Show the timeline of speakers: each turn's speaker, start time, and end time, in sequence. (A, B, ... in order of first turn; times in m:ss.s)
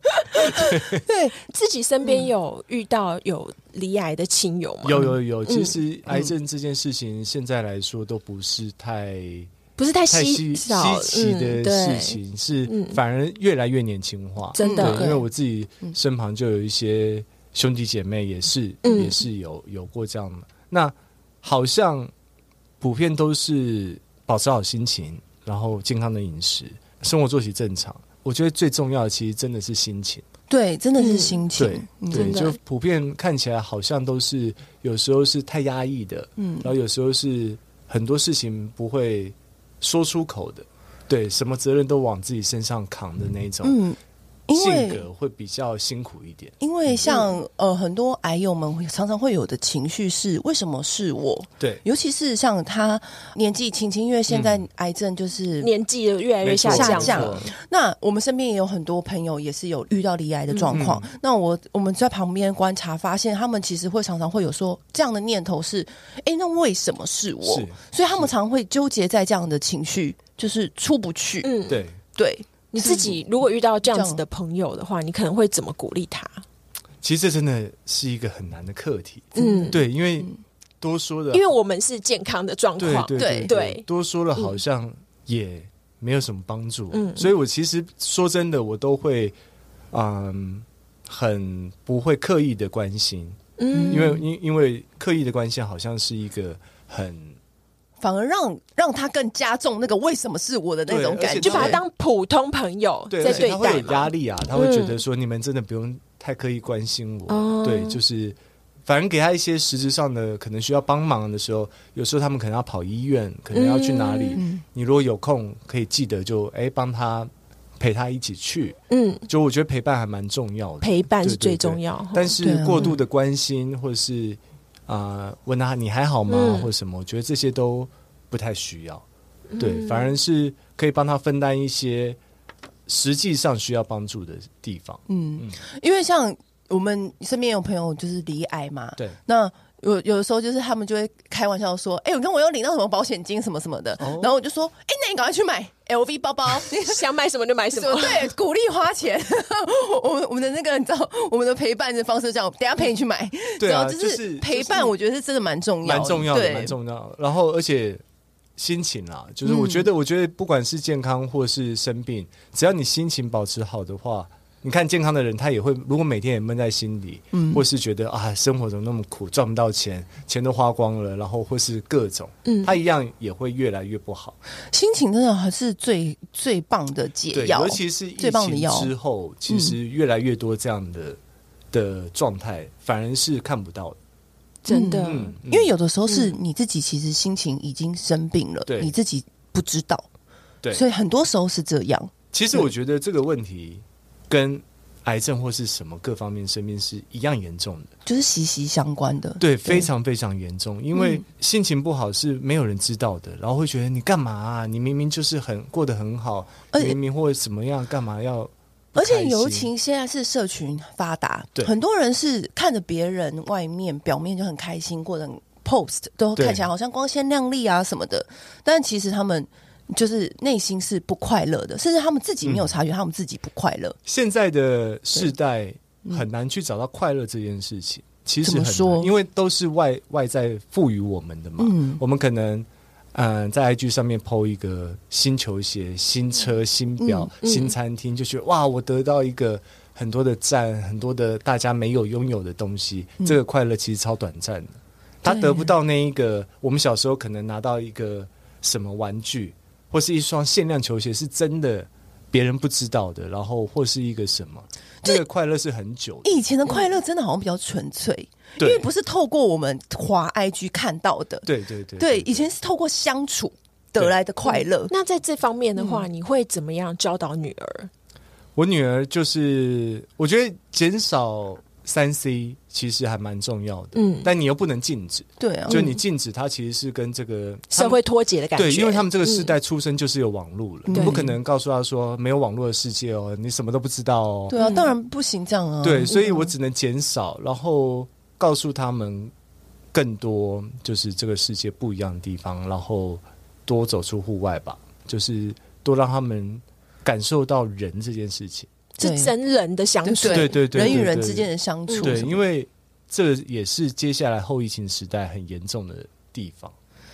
0:00.3-0:01.4 A
0:00.4-0:01.0 B
0:01.4-0:05.8 C
0:04.8-0:09.5 B
0:09.8-0:13.0 C
0:10.1-0:22.1 B
0:14.5-0:15.1 C
0:14.6-0:15.2 A
0:18.8-0:19.2 C
0:22.8-0:30.2 B
0:30.5-0:32.4 A
0:31.0-0:31.4 C
0:31.6-0:43.8 B
0:32.1-0:32.6 C
0:36.4-0:36.7 A
0:43.6-0:45.0 A
0:44.5-0:47.0 B
0:46.6-0:55.7 A
0:47.0-0:47.3 C
0:54.3-0:54.6 B
0:55.6-0:57.4 C
0:56.4-0:57.5 B
0:56.6-1:11.5 A
1:00.5-1:00.8 C
1:00.7-1:01.1 B
1:07.4-1:08.3 B
1:11.4-1:11.8 C
1:11.7-1:12.0 B
1:12.1-1:13.2 A
1:12.7-1:16.4 C
1:13.9-1:14.2 A
1:17.0-1:20.3 B
1:19.3-1:20.4 A
1:19.4-1:19.8 C
1:20.8-1:21.4 B
1:21.3-1:23.8 C
1:22.8-1:29.4 B
1:23.2-1:23.5 A
1:26.9-1:27.3 C
1:29.9-1:37.4 B
1:33.6-1:34.2 C
1:33.7-1:34.2 A
1:38.0-1:41.8 A
1:40.9-1:41.8 B
1:41.4-1:45.0 C
1:43.1-2:09.0 B
1:43.2-1:43.5 A
1:47.3-1:48.0 C
1:53.5-1:54.4 C
1:54.4-1:54.6 A
1:58.9-1:59.2 C
2:00.8-2:02.4 C
2:02.4-2:02.9 A
2:06.3-2:06.7 C
2:09.5-2:10.1 C
2:09.6-2:12.2 B
2:12.9-2:15.6 B
2:15.1-2:27.0 A
2:24.0-2:24.3 B
2:26.6-2:28.3 C
2:27.7-2:36.7 A
2:33.6-2:34.9 B
2:35.8-2:38.0 B
2:38.6-2:54.4 B
2:39.4-2:39.9 A
2:47.3-2:47.6 A
2:52.4-2:52.8 C
2:54.7-2:58.9 A
2:57.3-3:01.2 B
2:59.5-2:59.8 A
3:01.7-3:04.0 B
3:04.6-3:05.4 C
3:04.7-3:10.1 A
3:05.0-3:05.7 B
3:06.1-3:06.3 C
3:08.7-3:08.9 B
3:10.7-3:12.6 A
3:12.3-3:17.9 B
3:18.0-3:19.9 A
3:19.4-3:29.7 B
3:20.9-3:21.2 A
3:26.7-3:27.0 A
3:28.9-3:44.0 A
3:36.4-3:36.6 B
3:42.4-3:42.7 B
3:44.0-4:16.3 B
3:48.4-3:49.1 A
3:51.6-3:52.0 A
3:57.0-3:57.3 A
3:57.4-3:57.7 C
4:05.3-4:05.7 A
4:16.2-4:21.5 A
4:18.6-4:18.9 B
4:21.4-4:22.5 B
4:22.0-4:24.9 A
4:24.4-4:27.9 C
4:25.8-4:26.0 A
4:28.6-4:38.0 B
4:33.9-4:34.3 C
4:35.4-4:35.8 A
4:35.7-4:36.0 C
4:37.7-4:39.5 C
4:38.5-4:44.5 B
4:40.9-4:41.3 A
4:40.9-4:41.2 C
4:44.5-4:46.5 A
4:44.6-4:44.9 C
4:45.8-4:49.3 B
4:49.9-4:58.7 B
4:59.0-5:01.0 C
4:59.0-4:59.3 A
5:00.0-5:02.4 A
5:00.3-5:01.5 B
5:01.9-5:02.2 C
5:02.0-5:06.7 B